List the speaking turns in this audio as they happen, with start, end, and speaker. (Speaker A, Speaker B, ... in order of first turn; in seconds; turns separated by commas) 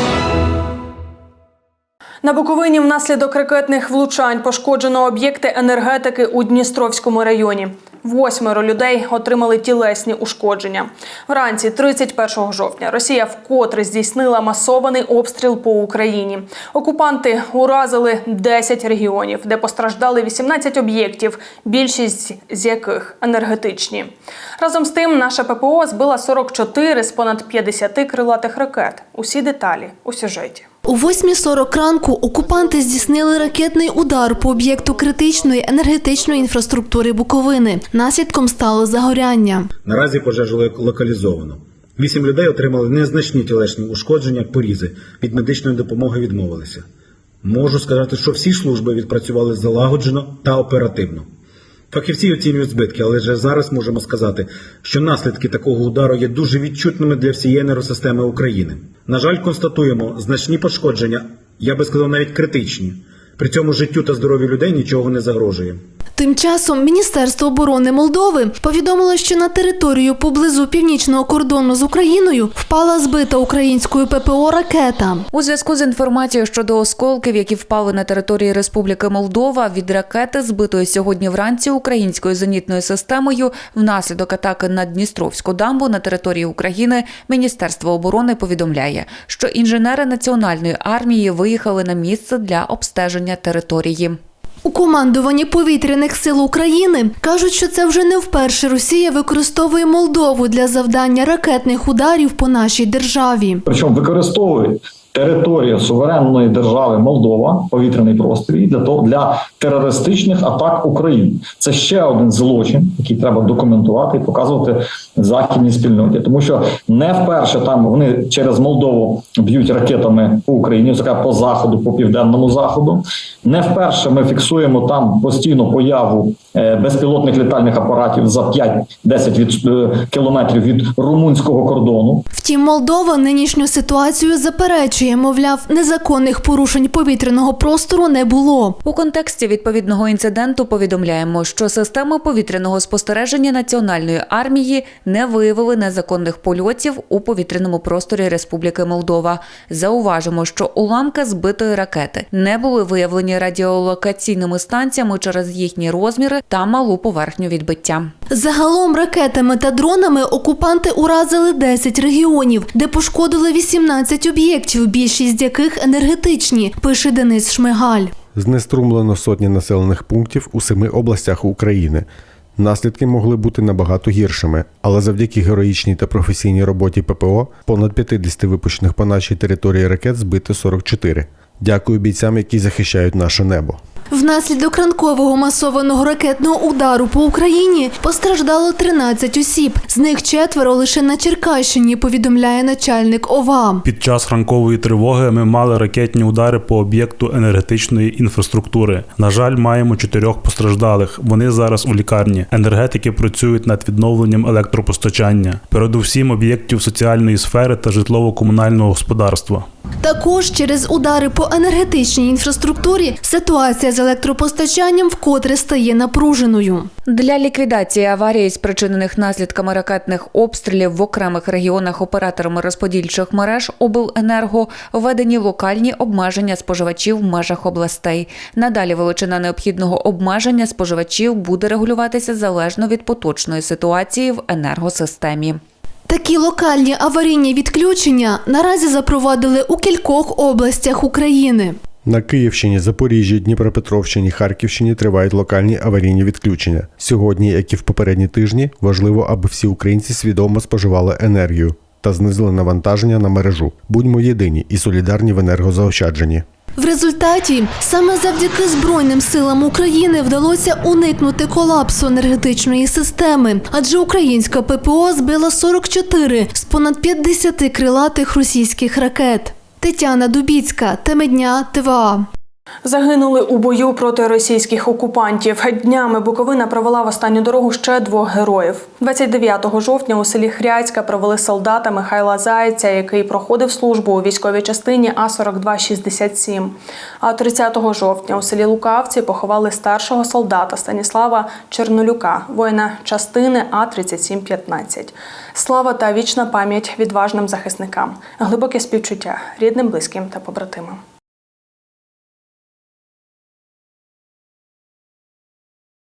Speaker A: 2.2-30.7, Speaker B: 30.9-39.7, Speaker C: 39.9-46.8, Speaker C: 47.4-51.2, Speaker C: 51.9-65.8, Speaker B: 66.2-75.3, Speaker D: 75.3-94.2, Speaker B: 94.7-103.6, Speaker E: 103.7-132.2, Speaker B: 132.3-138.8, Speaker D: 138.8-158.1, Speaker B: 158.3-168.1, Speaker F: 168.3-172.1, Speaker F: 172.6-183.8, Speaker B: 184.1-193.9, Speaker G: 193.9-209.7, Speaker B: 210.0-216.9, Speaker D: 217.1-235.6, Speaker B: 236.1-241.8, Speaker F: 242.1-256.4, Speaker B: 256.8-272.3, Speaker A: 272.9-301.0